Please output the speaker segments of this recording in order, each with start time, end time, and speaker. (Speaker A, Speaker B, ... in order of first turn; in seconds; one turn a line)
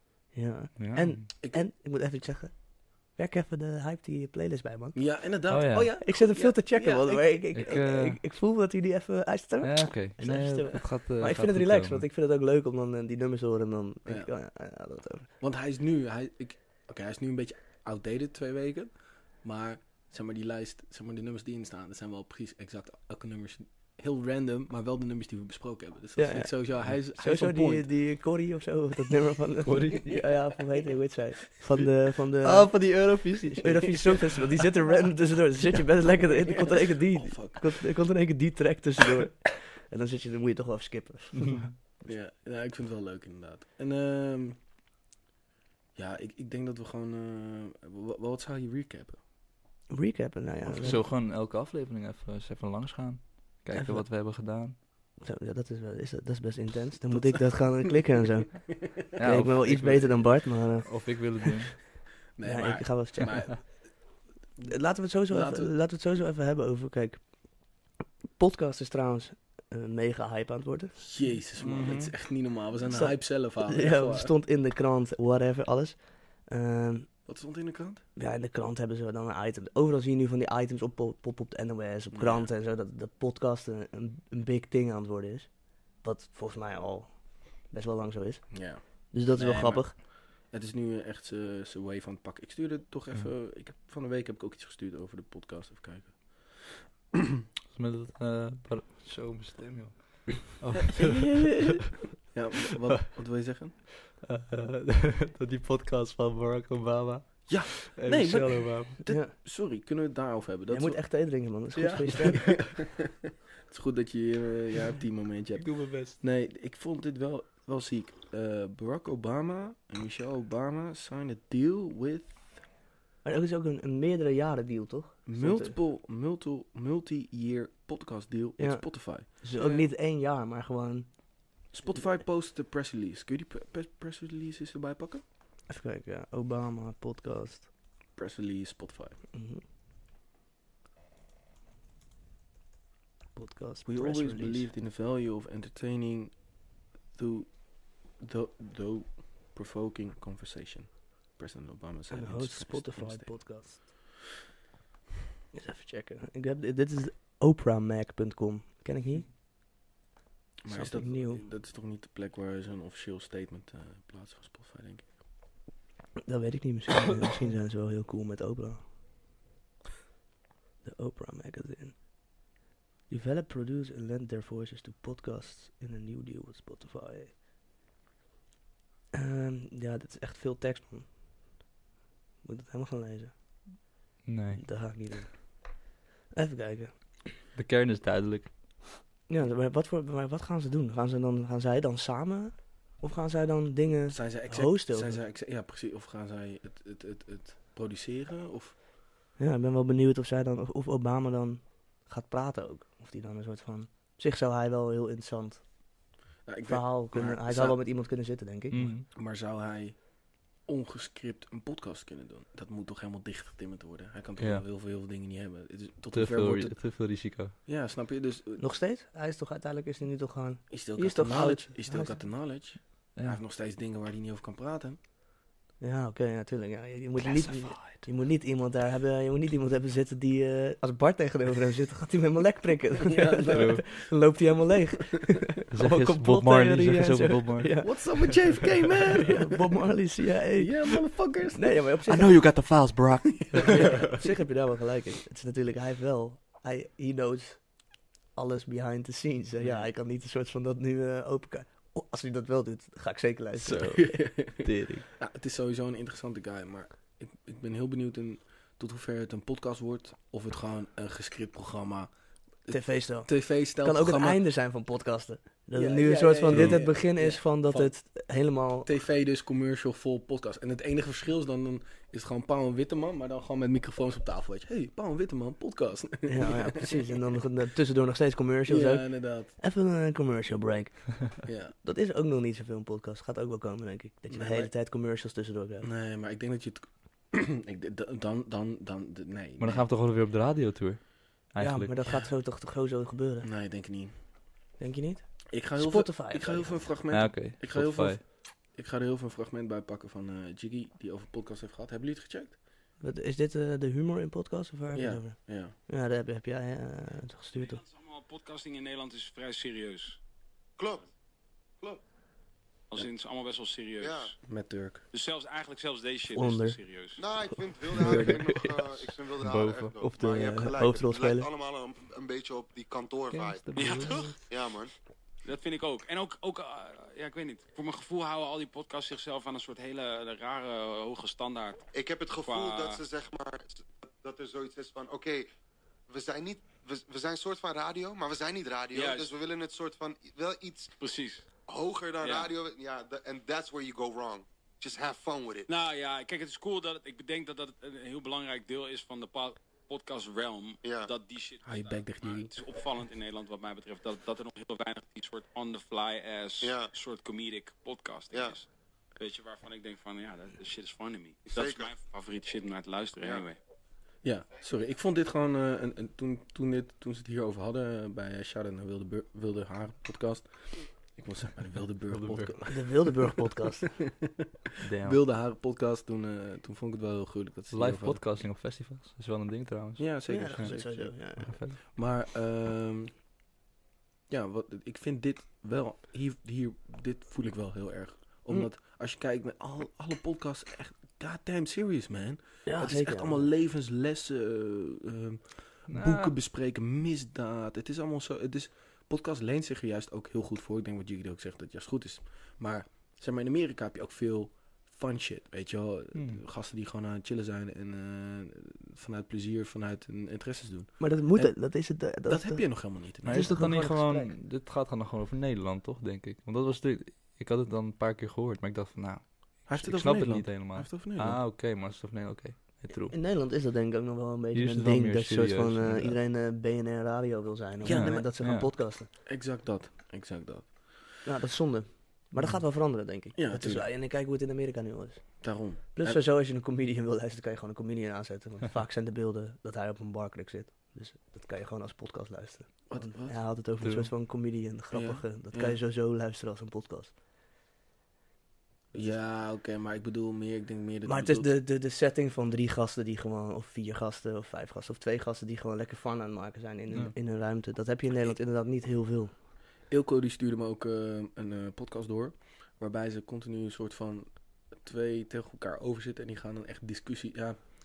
Speaker A: 0.3-5.2
Speaker B: 0.8-1.2
Speaker C: 4.9-7.4
Speaker B: 5.5-6.0
Speaker A: 6.0-15.3
Speaker B: 7.5-8.2
Speaker B: 9.6-12.0
Speaker C: 14.1-14.3
Speaker C: 15.4-27.9
Speaker A: 26.2-32.9
Speaker B: 29.6-30.1
Speaker B: 32.4-34.2
Speaker A: 33.5-42.0
Speaker C: 36.1-37.9
Speaker C: 42.0-44.6
Speaker C: 45.9-49.2
Speaker A: 49.9-51.0
Speaker B: 50.7-54.8
Speaker A: 53.7-54.0
Speaker A: 55.2-61.3
Speaker B: 59.1-61.9
Speaker C: 62.4-63.9
Speaker A: 62.4-63.6
Speaker A: 64.6-67.8
Speaker C: 65.3-65.7
Speaker A: 68.4-71.0
Speaker C: 71.0-74.3
Speaker B: 71.6-72.1
Speaker A: 72.8-77.2
Speaker C: 77.2-78.0
Speaker A: 78.2-90.0
Speaker C: 82.1-82.5
Speaker C: 88.5-96.7
Speaker B: 97.7-101.8
Speaker C: 101.0-101.7
Speaker A: 101.0-101.8
Speaker C: 102.3-103.8
Speaker B: 104.2-109.0
Speaker C: 107.5-111.0
Speaker A: 108.9-109.3
Speaker A: 110.7-112.6
Speaker B: 111.7-112.5
Speaker C: 112.1-113.1
Speaker C: 113.7-122.6
Speaker B: 115.6-116.2
Speaker A: 123.2-125.8
Speaker C: 125.2-129.3
Speaker A: 128.6-131.2
Speaker C: 131.7-135.2
Speaker A: 135.7-137.7
Speaker C: 138.1-139.2
Speaker A: 139.3-139.6
Speaker A: 143.3-144.7
Speaker C: 143.8-146.5
Speaker C: 147.1-153.5
Speaker A: 152.1-153.9
Speaker A: 155.5-159.3
Speaker C: 160.6-165.1
Speaker A: 160.7-161.4
Speaker A: 166.2-168.9
Speaker A: 170.8-172.0
Speaker A: 173.1-177.3
Speaker A: 179.1-181.2
Speaker A: 182.4-183.9
Speaker B: 184.2-184.8
Speaker A: 184.6-185.8
Speaker A: 186.3-186.9
Speaker B: 187.5-188.9
Speaker A: 189.3-195.2
Speaker C: 194.1-198.8
Speaker A: 199.4-205.8
Speaker C: 206.4-207.8
Speaker A: 206.7-209.0
Speaker B: 208.7-209.0
Speaker C: 209.1-210.0
Speaker C: 210.6-216.8
Speaker B: 214.4-214.6
Speaker B: 216.1-217.5
Speaker C: 217.7-218.6
Speaker A: 218.6-222.2
Speaker C: 220.7-225.0
Speaker A: 225.8-238.6
Speaker B: 227.2-228.0
Speaker C: 233.0-234.1
Speaker B: 233.5-233.8
Speaker B: 235.7-238.1
Speaker C: 237.8-239.9
Speaker A: 239.2-242.4
Speaker C: 240.5-242.5
Speaker B: 242.1-244.0
Speaker C: 243.2-244.1
Speaker A: 243.5-254.3
Speaker C: 249.6-249.9
Speaker C: 253.6-262.1
Speaker B: 254.6-255.0
Speaker C: 262.6-264.4
Speaker A: 262.7-268.9
Speaker C: 265.7-267.9
Speaker B: 266.5-266.8
Speaker C: 268.8-277.2
Speaker A: 276.2-285.9
Speaker C: 278.6-279.5
Speaker C: 281.4-281.7
Speaker C: 284.3-284.7
Speaker C: 285.8-289.9
Speaker B: 289.6-292.1
Speaker A: 291.6-293.5
Speaker C: 293.4-294.1
Speaker A: 294.8-296.9
Speaker C: 295.5-302.6
Speaker B: 297.1-298.2
Speaker A: 303.0-307.8
Speaker C: 304.9-305.7
Speaker D: 307.6-310.2
Speaker E: 310.8-311.1
Speaker D: 312.9-314.4
Speaker E: 314.0-314.3
Speaker C: 314.4-315.0
Speaker D: 315.1-317.2
Speaker A: 316.3-316.8
Speaker E: 317.2-324.9
Speaker A: 317.9-318.7
Speaker B: 318.0-318.4
Speaker B: 319.4-320.0
Speaker A: 320.0-321.5
Speaker B: 323.3-324.3
Speaker D: 325.4-331.8
Speaker E: 331.9-335.4
Speaker D: 332.4-333.0
Speaker E: 336.1-340.9
Speaker D: 338.9-339.3
Speaker D: 341.0-341.5
Speaker E: 341.6-345.7
Speaker D: 342.2-342.5
Speaker D: 345.7-363.6
Speaker E: 350.8-351.1
Speaker C: 351.6-352.5
Speaker E: 356.6-356.9
Speaker E: 361.5-361.9
Speaker C: 364.2-374.5
Speaker B: 372.1-372.6
Speaker A: 372.7-373.9
Speaker B: 374.8-375.2
Speaker C: 375.0-378.2
Speaker B: 377.7-380.7
Speaker C: 380.0-383.1
Speaker A: 380.3-381.6
Speaker B: 381.4-381.8
Speaker C: 384.3-413.6
Speaker A: 392.6-393.5
Speaker B: 395.9-396.3
Speaker B: 406.1-406.4
Speaker A: 411.0-414.3
Speaker B: 413.2-423.2
Speaker C: 419.7-421.4
Speaker A: 423.1-429.1
Speaker B: 424.5-426.1
Speaker C: 427.8-428.3
Speaker B: 427.9-428.7
Speaker C: 429.2-430.8
Speaker A: 431.2-447.1
Speaker C: 433.3-433.9
Speaker C: 435.4-436.2
Speaker C: 442.9-443.5
Speaker B: 443.8-444.1
Speaker C: 444.9-445.8
Speaker C: 448.9-451.5
Speaker A: 451.0-459.4
Speaker C: 459.9-467.7